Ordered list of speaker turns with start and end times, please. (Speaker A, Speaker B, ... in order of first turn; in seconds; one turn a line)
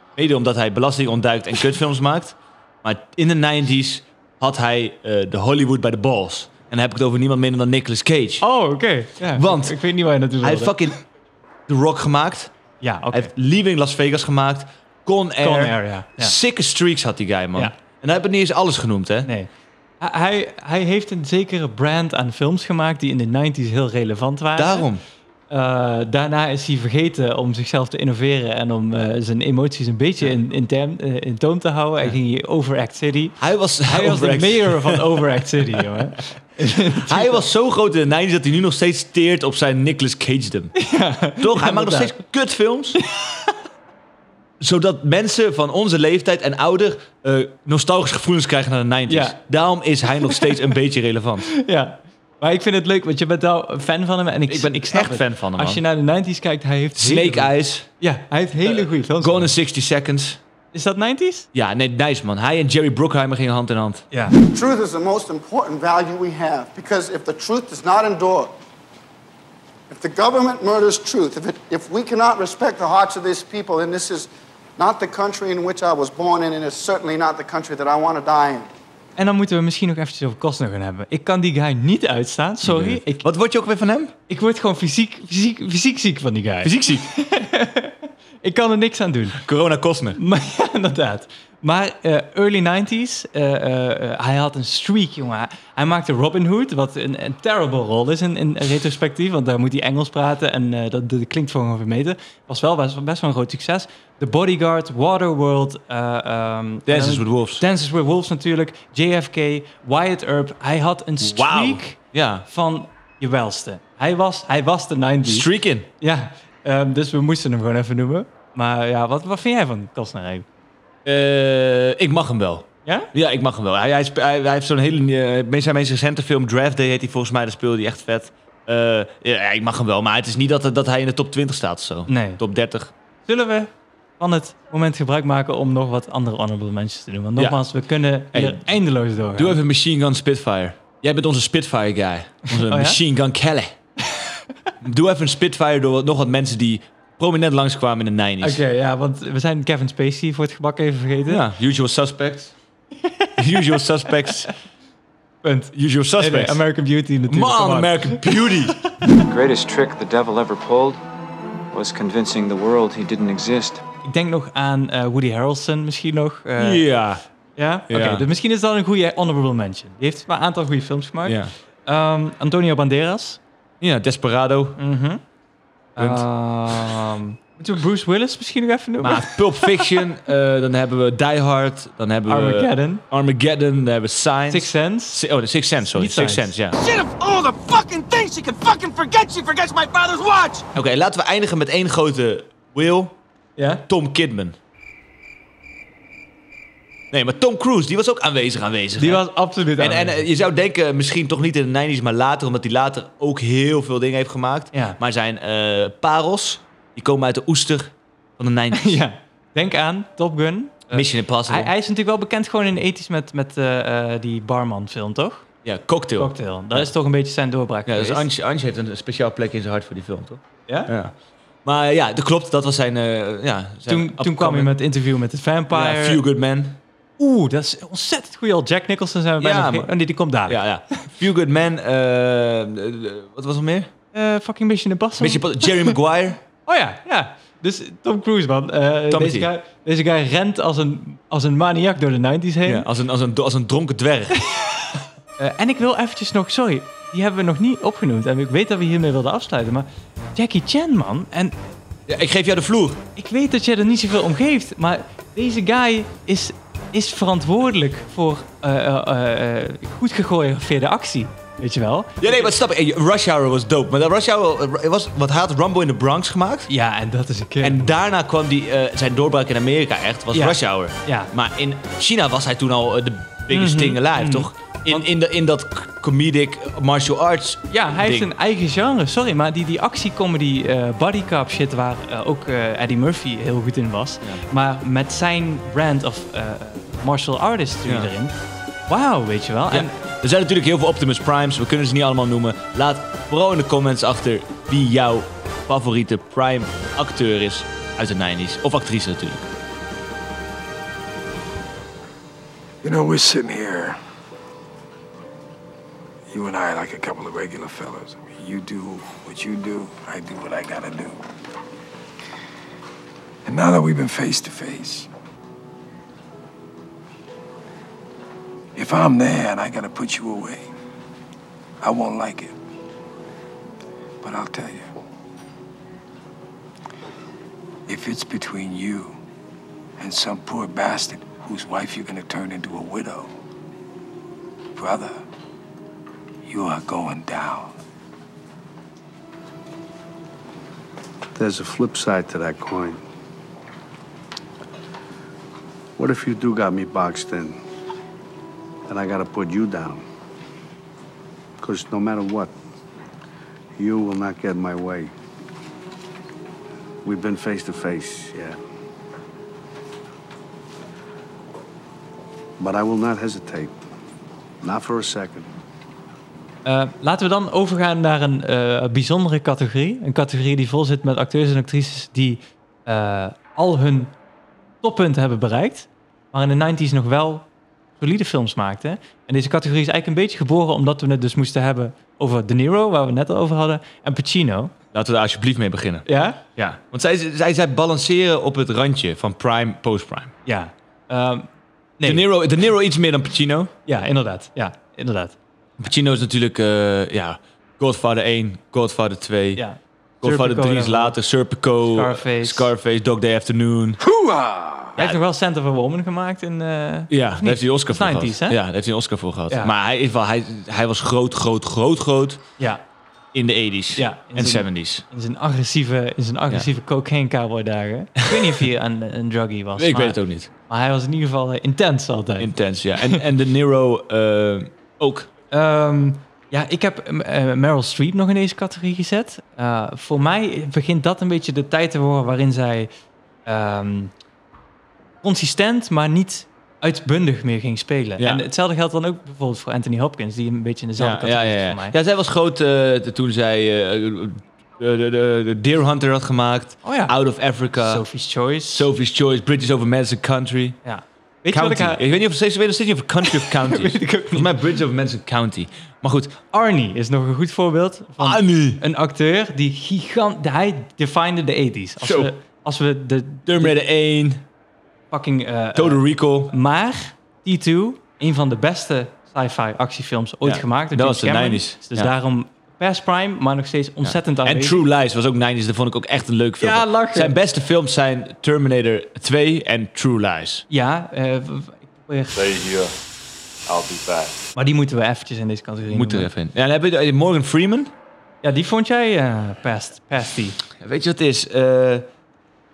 Speaker A: 0.2-8.4
Speaker B: 8.4-10.8
Speaker A: 9.3-9.8
Speaker A: 10.4-11.0
Speaker A: 11.7-12.5
Speaker B: 12.8-13.3
Speaker A: 13.1-19.3
Speaker B: 15.4-16.3
Speaker B: 19.2-19.5
Speaker B: 20.0-24.9
Speaker A: 24.6-25.0
Speaker B: 25.5-37.5
Speaker A: 33.4-35.2
Speaker A: 37.0-40.8
Speaker B: 40.8-42.2
Speaker A: 41.4-43.0
Speaker B: 43.0-43.5
Speaker A: 44.6-51.5
Speaker B: 49.1-49.4
Speaker B: 51.6-59.5
Speaker A: 54.5-55.8
Speaker A: 57.0-57.9
Speaker A: 58.6-60.4
Speaker B: 60.7-61.5
Speaker A: 61.5-64.0
Speaker C: 64.5-68.6
Speaker C: 69.9-78.7
Speaker B: 79.2-83.3
Speaker A: 82.6-84.1
Speaker B: 84.3-89.4
Speaker A: 86.6-87.1
Speaker A: 89.4-90.2
Speaker B: 90.1-115.5
Speaker A: 106.9-107.6
Speaker A: 111.2-112.5
Speaker A: 115.2-115.9
Speaker B: 116.0-120.5
Speaker A: 121.0-132.9
Speaker B: 122.8-123.1
Speaker B: 132.1-132.4
Speaker B: 133.3-139.6
Speaker A: 138.3-138.7
Speaker A: 139.4-143.8
Speaker B: 142.5-143.0
Speaker A: 144.8-148.6
Speaker B: 148.4-151.4
Speaker A: 151.3-152.5
Speaker A: 153.4-154.5
Speaker B: 155.4-159.1
Speaker A: 155.7-156.6
Speaker A: 157.3-158.8
Speaker D: 159.3-161.0
Speaker D: 161.7-163.8
Speaker B: 164.0-166.9
Speaker A: 166.6-167.2
Speaker B: 167.6-173.4
Speaker A: 167.9-168.3
Speaker A: 171.2-171.5
Speaker A: 173.8-174.8
Speaker B: 174.8-175.2
Speaker B: 176.0-179.9
Speaker A: 176.0-177.0
Speaker A: 179.0-186.8
Speaker B: 182.3-183.0
Speaker B: 184.5-185.2
Speaker B: 185.9-186.5
Speaker E: 186.8-190.7
Speaker A: 190.7-193.2
Speaker B: 193.6-193.8
Speaker A: 193.9-194.6
Speaker A: 197.1-199.2
Speaker B: 199.0-200.3
Speaker A: 199.8-209.0
Speaker B: 208.7-215.5
Speaker A: 210.9-211.7
Speaker A: 215.6-216.9
Speaker B: 216.2-218.3
Speaker A: 217.9-221.1
Speaker B: 220.7-220.9
Speaker A: 221.7-224.7
Speaker B: 223.9-226.2
Speaker A: 225.7-226.8
Speaker B: 227.2-230.6
Speaker A: 229.4-229.9
Speaker A: 230.5-233.9
Speaker B: 234.1-236.0
Speaker A: 235.2-236.4
Speaker B: 236.7-242.9
Speaker A: 239.1-239.5
Speaker A: 242.7-244.4
Speaker B: 244.5-251.6
Speaker A: 252.1-253.0
Speaker B: 253.2-262.5
Speaker A: 262.2-266.7
Speaker B: 266.7-267.9
Speaker A: 267.6-278.3
Speaker B: 270.3-271.3
Speaker B: 273.5-275.1
Speaker B: 277.7-288.4
Speaker A: 287.9-288.1
Speaker B: 288.9-290.0
Speaker A: 289.7-299.5
Speaker F: 302.8-304.0
Speaker F: 306.3-311.2
Speaker F: 313.4-315.1
Speaker F: 318.8-320.7
Speaker F: 321.8-322.6
Speaker F: 324.2-324.9
Speaker F: 327.9-329.2
Speaker F: 330.0-333.3
Speaker F: 334.8-335.2
Speaker F: 336.4-337.8
Speaker G: 341.4-343.0
Speaker G: 346.0-347.6
Speaker G: 348.9-350.1
Speaker G: 351.6-352.5
Speaker G: 353.8-355.1
Speaker G: 357.0-358.6
Speaker G: 362.6-363.8
Speaker G: 364.6-365.5
Speaker B: 366.6-374.1
Speaker B: 374.8-377.5
Speaker B: 378.0-384.7
Speaker A: 384.9-390.3
Speaker B: 386.1-386.5
Speaker B: 390.5-391.5
Speaker B: 392.0-392.3
Speaker A: 392.0-393.7
Speaker B: 393.9-395.4
Speaker A: 395.8-399.6
Speaker B: 399.6-401.2
Speaker A: 400.2-404.0
Speaker B: 401.9-402.7
Speaker F: 404.2-404.8
Speaker B: 405.0-408.6
Speaker A: 407.1-412.4
Speaker A: 413.3-415.0
Speaker B: 414.0-422.5
Speaker A: 419.8-420.5
Speaker A: 422.4-425.3
Speaker B: 425.5-432.9
Speaker B: 433.5-434.1
Speaker B: 435.2-442.0
Speaker A: 438.2-438.4
Speaker A: 441.0-448.0
Speaker B: 446.8-447.1
Speaker B: 447.8-448.9
Speaker A: 448.7-450.8
Speaker B: 450.9-452.0
Speaker A: 451.5-456.4
Speaker B: 453.2-454.6
Speaker B: 456.5-463.8
Speaker A: 458.2-458.8
Speaker A: 462.0-462.3
Speaker A: 463.5-464.4
Speaker B: 465.1-474.8
Speaker A: 465.8-466.5
Speaker A: 470.4-472.1
Speaker A: 474.0-480.6
Speaker B: 476.6-477.4
Speaker B: 480.7-482.4
Speaker B: 484.6-486.3
Speaker A: 485.9-487.9
Speaker B: 488.4-490.6
Speaker A: 490.8-492.1